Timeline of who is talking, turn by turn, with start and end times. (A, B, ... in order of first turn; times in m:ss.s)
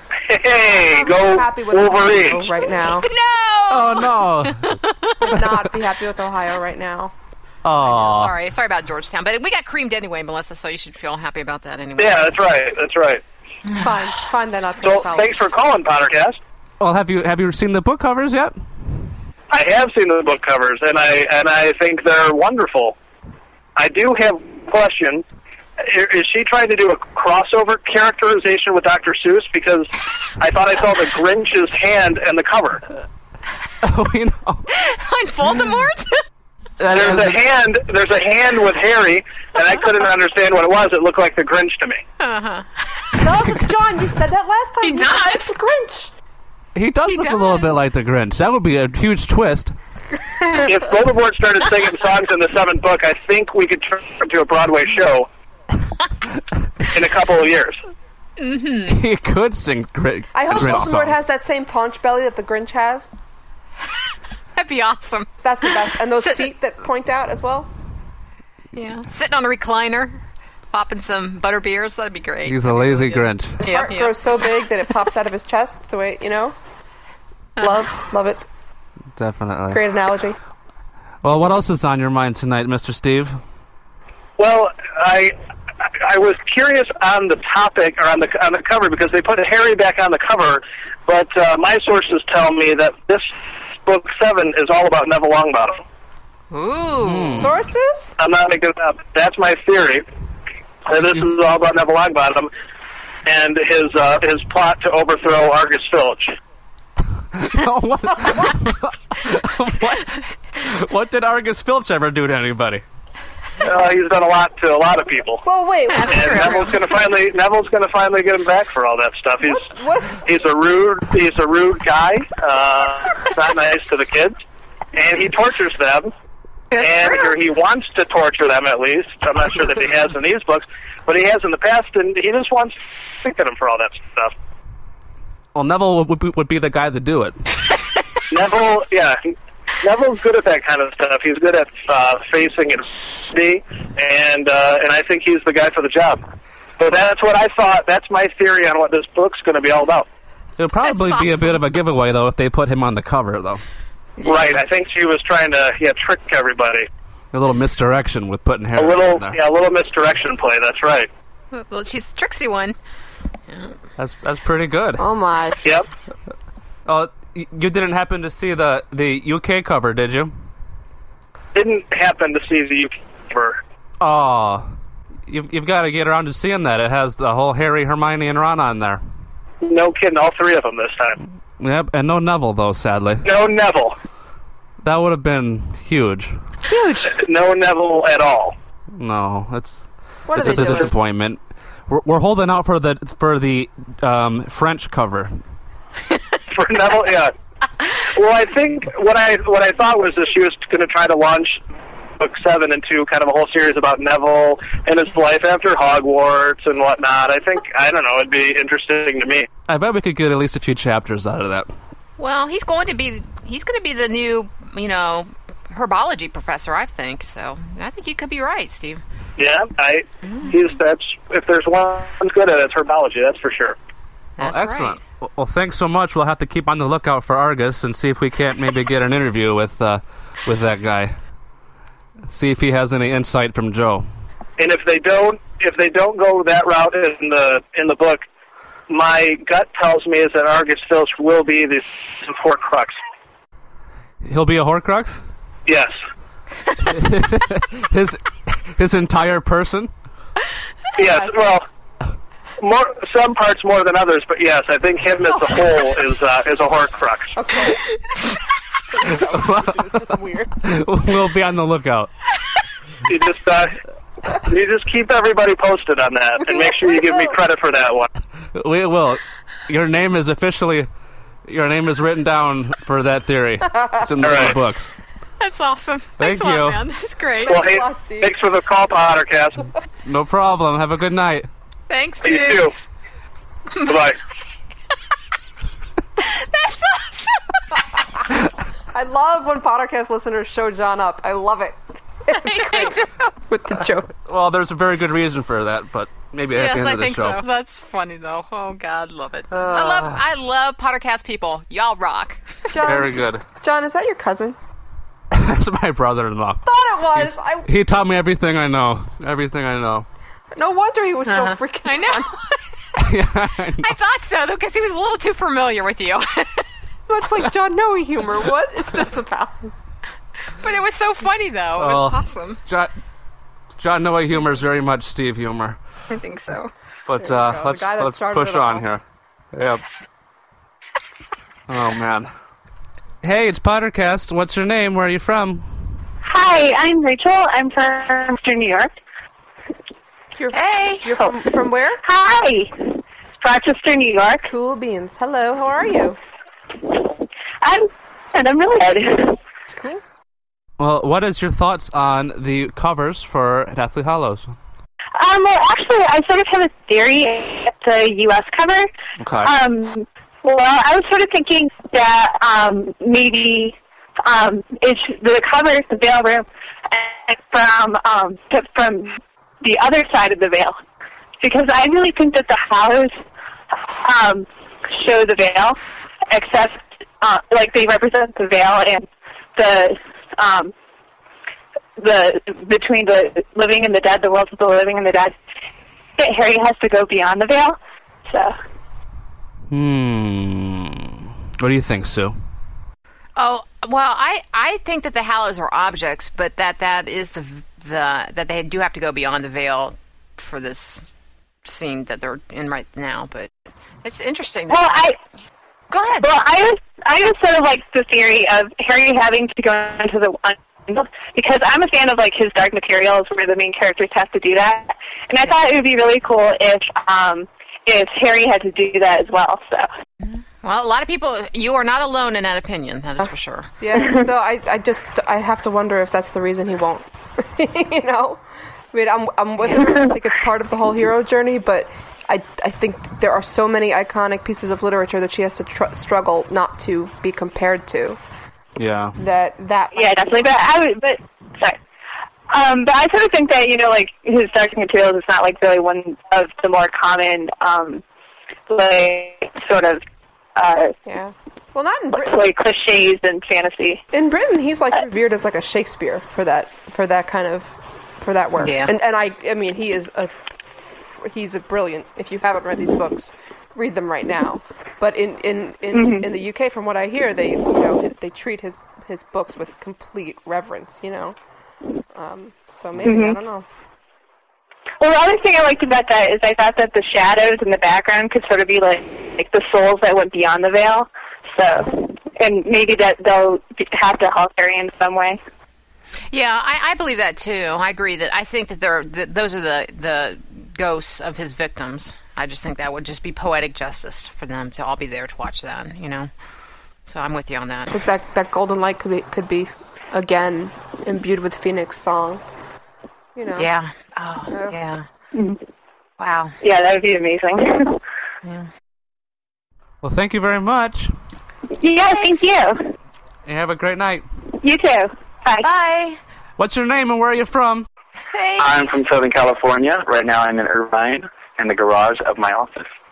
0:00.3-0:02.5 A
0:00.9-0:03.1 B
0:03.0-0:05.3 C
0:03.7-0:04.8 D
0:05.2-0:07.1 B
0:07.6-0:08.3 D
0:07.8-0:12.3 C
0:12.0-0:13.2 A
0:13.8-0:15.4 B
0:14.8-0:16.4 A
0:16.8-0:18.6 D
0:19.5-0:22.9 A
0:23.8-0:25.2 A
0:25.8-0:32.8 A
0:33.8-0:34.7 D
0:34.7-0:36.2 C
0:36.8-0:37.4 D
0:36.9-0:42.0 A
0:42.2-0:43.2 C
0:43.2-0:46.1 B
0:44.8-0:45.5 C
0:46.7-0:49.7 D
0:47.1-0:47.7 C
0:50.6-0:55.3 A
0:56.9-0:57.8 A
0:58.4-0:59.0 C
0:58.9-1:01.2 D
1:00.3-1:03.1 B
1:04.5-1:06.5 C
1:05.4-1:07.7 B
1:08.7-1:14.2 C
1:12.4-1:13.6 D
1:13.6-1:16.5 B
1:17.6-1:18.4 B
1:19.2-1:19.8 D
1:19.7-1:20.4 B
1:21.2-1:23.4 D
1:24.4-1:25.3 A
1:26.0-1:33.3 A
1:33.8-1:35.8 A
1:36.5-1:37.5 C
1:37.0-1:37.5 D
1:37.4-1:38.1 B
1:38.2-1:40.0 A
1:40.8-1:42.5 A
1:43.2-1:46.4 A
1:47.3-1:52.8 D
1:53.6-1:55.4 A
1:55.4-1:56.7 B
1:55.9-1:56.9 C
1:56.1-1:59.6 A
1:59.4-2:00.2 B
2:00.2-2:04.4 A
2:04.9-2:06.1 A
2:06.7-2:07.3 C
2:06.7-2:14.3 A
2:15.5-2:17.4 D
2:18.3-2:19.2 A
2:19.8-2:26.2 A
2:26.8-2:30.0 A
2:30.6-2:33.6 D
2:30.8-2:31.6 C
2:34.2-2:34.6 C
2:34.2-2:36.9 A
2:37.3-2:39.4 D
2:38.7-2:41.1 A
2:41.5-2:42.8 C
2:44.0-2:45.0 D
2:45.0-2:45.6 B
2:46.8-2:50.3 D
2:51.5-2:53.6 A
2:54.0-2:54.7 D
2:55.3-2:59.0 D
2:59.6-3:01.2 A
3:01.6-3:03.2 D
3:03.2-3:04.0 A
3:04.8-3:06.4 D
3:06.7-3:07.1 B
3:07.1-3:08.5 A
3:08.9-3:15.3 D
3:10.3-3:10.9 B
3:16.5-3:17.3 A
3:18.0-3:21.6 A
3:22.2-3:29.5 A
3:29.7-3:31.7 D
3:32.2-3:39.0 C
3:39.4-3:43.8 A
3:44.4-3:45.0 C
3:44.4-3:51.2 D
3:52.3-3:54.1 D
3:54.6-3:58.2 A
3:58.9-4:03.0 A
4:04.2-4:05.2 D
4:05.6-4:06.0 A
4:06.8-4:09.9 D
4:11.0-4:11.6 A
4:12.6-4:17.3 A
4:17.3-4:17.8 B
4:18.9-4:20.6 B
4:19.2-4:19.9 D
4:20.6-4:22.1 D
4:23.0-4:23.8 A
4:24.4-4:28.1 A
4:26.5-4:27.3 B
4:28.5-4:30.9 D
4:31.4-4:34.9 D
4:34.2-4:34.6 A
4:35.4-4:37.7 C
4:36.2-4:36.8 D
4:37.4-4:38.3 B
4:37.4-4:39.6 A
4:40.0-4:41.5 D
4:41.9-4:42.7 C
4:42.2-4:42.7 A
4:43.8-4:44.2 A
4:46.2-4:47.6 C
4:48.9-4:54.1 B
4:52.3-4:53.3 C
4:54.3-4:57.4 D
4:56.5-5:02.4 C
4:59.5-5:00.2 D
5:02.7-5:04.6 B
5:02.8-5:03.4 D
5:05.3-5:10.0 D
5:06.6-5:07.7 B
5:10.5-5:12.4 B
5:11.3-5:12.3 C
5:13.0-5:13.9 D
5:13.8-5:16.6 C
5:17.1-5:19.7 B
5:20.6-5:22.6 C
5:21.8-5:22.9 D
5:23.8-5:25.8 D
5:26.1-5:26.7 C
5:27.0-5:29.0 D
5:27.2-5:28.8 B
5:29.5-5:29.8 D
5:31.7-5:32.3 D
5:33.2-5:35.7 D
5:36.2-5:38.9 E
5:40.4-5:42.0 B
5:40.5-5:41.0 C
5:42.0-5:44.5 E
5:44.4-5:46.2 B
5:46.9-5:49.4 E
5:49.8-5:50.0 B
5:50.8-5:54.5 D
5:55.2-5:58.9 E
5:59.2-5:59.5 D
5:59.4-6:10.8 E
6:11.4-6:13.1 E
6:13.9-6:15.8 E
6:16.3-6:20.7 E
6:22.0-6:25.3 E
6:26.2-6:28.5 E
6:29.7-6:32.4 D
6:33.4-6:41.1 C
6:41.6-6:43.5 C
6:44.0-6:45.1 C
6:44.7-6:45.2 E
6:45.9-6:46.3 C
6:46.2-6:59.9 E
7:00.2-7:03.7 C
7:03.8-7:18.2 B
7:18.8-7:19.2 D
7:19.2-7:20.4 B
7:19.9-7:21.8 E
7:22.5-7:28.0 E
7:28.7-7:30.0 E
7:30.6-7:30.9 E
7:31.0-7:32.4 B
7:32.1-7:34.0 E
7:34.1-7:51.4 B
7:38.6-7:38.9 C
7:45.9-7:46.3 E
7:52.1-7:53.6 B
7:53.0-7:53.4 E
7:55.0-8:05.4 E
8:06.3-8:16.3 C
8:17.0-8:18.0 C
8:17.9-8:22.4 B
8:23.4-8:23.7 B
8:23.6-8:25.0 C
8:24.5-8:24.8 B
8:26.2-8:26.6 C
8:26.6-8:28.0 E
8:28.4-8:28.7 C
8:30.0-8:31.1 D
8:31.8-8:32.9 E
8:32.0-8:32.4 C
8:33.4-8:34.2 D
8:34.6-8:35.7 E
8:35.6-8:36.2 C
8:36.6-8:37.9 D
8:38.3-8:38.9 C
8:38.6-8:42.9 F